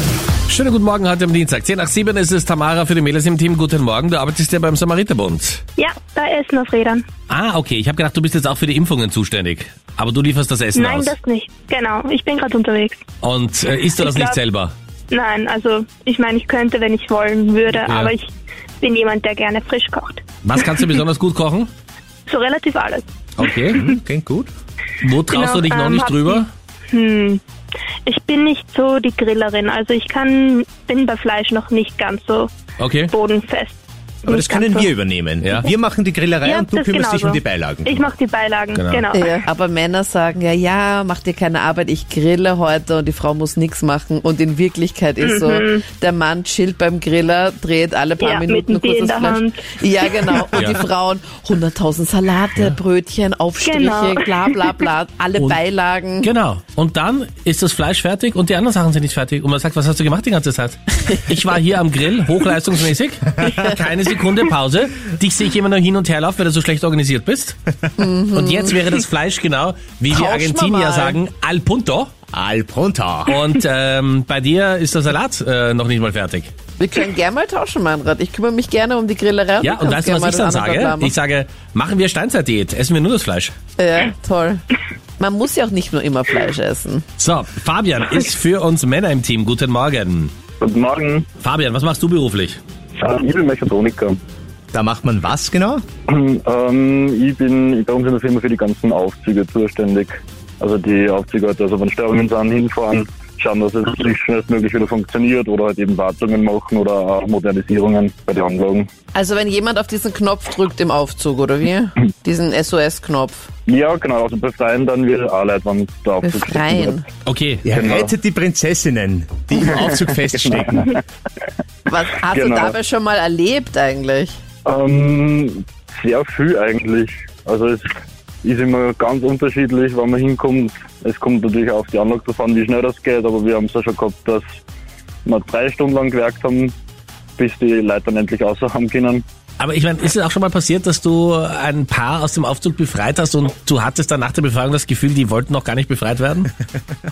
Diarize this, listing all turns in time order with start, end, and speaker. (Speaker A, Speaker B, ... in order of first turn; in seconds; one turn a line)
Speaker A: 0.5-5.6
Speaker B: 5.8-7.1
Speaker A: 7.3-11.1
Speaker B: 10.7-13.0
Speaker A: 13.2-14.7
Speaker B: 14.0-14.4
Speaker B: 15.1-20.9
Speaker A: 17.8-18.1
Speaker A: 20.4-21.7
Speaker B: 22.3-23.1
Speaker A: 23.4-23.8
Speaker C: 23.7-24.5
Speaker A: 25.0-26.5
Speaker B: 25.3-27.4
Speaker B: 28.1-32.5
Speaker A: 32.8-33.1
Speaker B: 33.1-34.9
Speaker C: 34.3-38.1
Speaker A: 35.4-35.7
Speaker B: 36.4-39.4
Speaker A: 38.8-39.0
Speaker D: 39.1-56.3
Speaker B: 45.2-45.9
Speaker B: 48.2-50.4
Speaker A: 50.5-50.8
Speaker B: 53.6-54.6
Speaker A: 56.2-67.6
Speaker D: 68.0-68.8
Speaker A: 68.3-72.1
Speaker D: 70.1-71.2
Speaker C: 72.3-73.4
Speaker A: 73.3-76.5
Speaker D: 76.8-81.2
Speaker A: 79.6-83.5
Speaker D: 83.8-84.6
Speaker D: 85.2-87.0
Speaker A: 87.2-90.3
Speaker E: 90.6-91.3
Speaker A: 91.4-92.6
Speaker E: 93.0-94.2
Speaker C: 94.7-95.8
Speaker E: 96.1-108.9
Speaker D: 109.1-113.5
Speaker E: 113.7-117.0
Speaker D: 116.2-117.0
Speaker A: 117.2-117.6
Speaker C: 117.7-120.9
Speaker E: 117.7-118.1
Speaker E: 119.7-120.9
Speaker D: 121.9-124.4
Speaker E: 122.3-122.7
Speaker E: 124.7-134.5
Speaker E: 135.2-136.8
Speaker E: 137.4-139.2
Speaker A: 139.6-146.5